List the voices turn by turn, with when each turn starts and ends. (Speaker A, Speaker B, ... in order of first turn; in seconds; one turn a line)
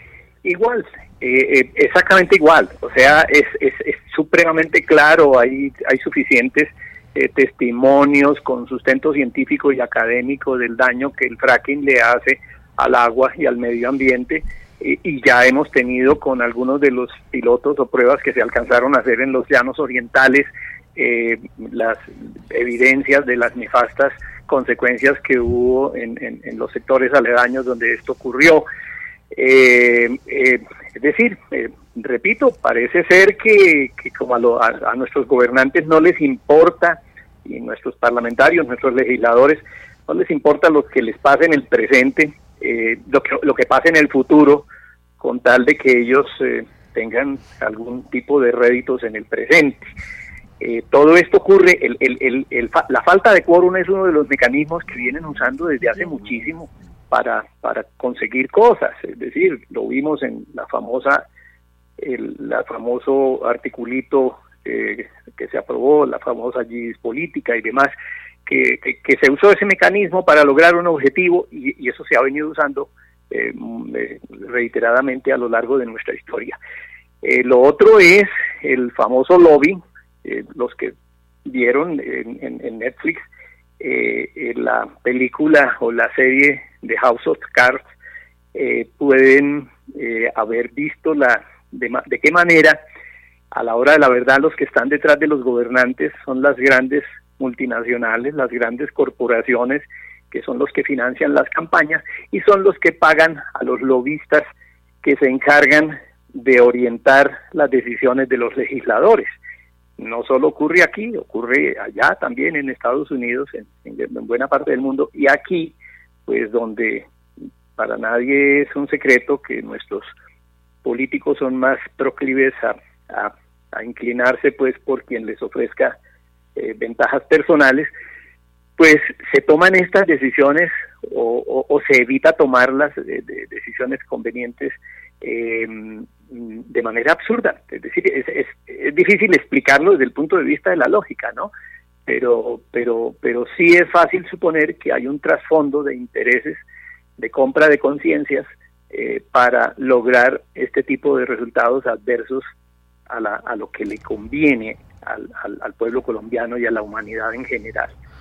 Speaker A: 0.4-28.6
Speaker A: 29.3-44.6
Speaker A: 45.2-49.9
Speaker A: 50.6-61.2
Speaker A: 62.0-67.9
Speaker A: 68.5-76.5
Speaker A: 77.2-80.9
Speaker A: 81.5-83.2
Speaker A: 83.8-87.8
Speaker A: 88.5-92.8
Speaker A: 93.5-104.5
Speaker A: 105.0-109.3
Speaker A: 110.0-115.8
Speaker A: 116.3-117.1
Speaker A: 117.8-120.0
Speaker A: 120.8-126.0
Speaker A: 126.6-127.9
Speaker A: 128.8-141.5
Speaker A: 142.1-146.6
Speaker A: 147.2-152.4
Speaker A: 153.1-157.9